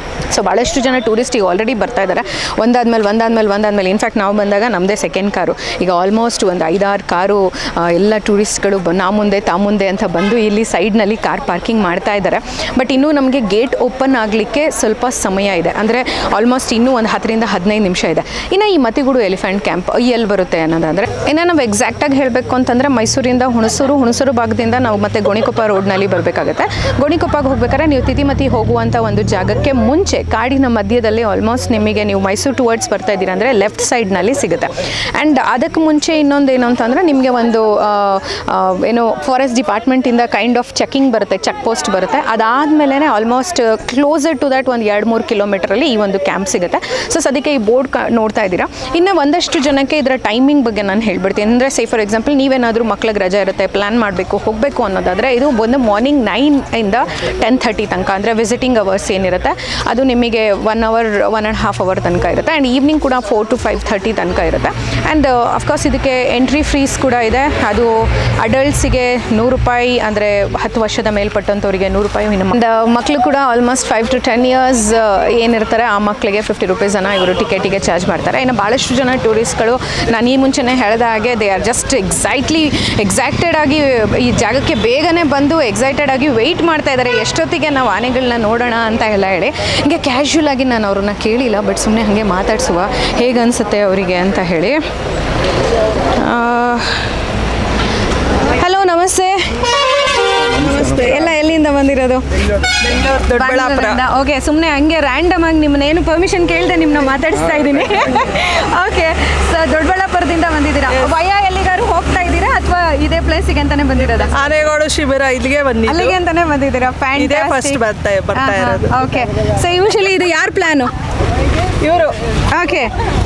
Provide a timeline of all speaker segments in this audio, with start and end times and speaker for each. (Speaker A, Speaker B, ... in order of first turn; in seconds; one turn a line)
Speaker A: 0.3-94.8
Speaker A: 96.2-97.2
Speaker A: 98.6-102.2
Speaker B: 102.8-104.0
Speaker A: 103.3-114.3
Speaker B: 114.3-116.1
Speaker A: 115.9-117.8
Speaker B: 117.2-118.9
Speaker A: 118.3-120.9
Speaker B: 121.8-122.1
Speaker A: 122.5-122.9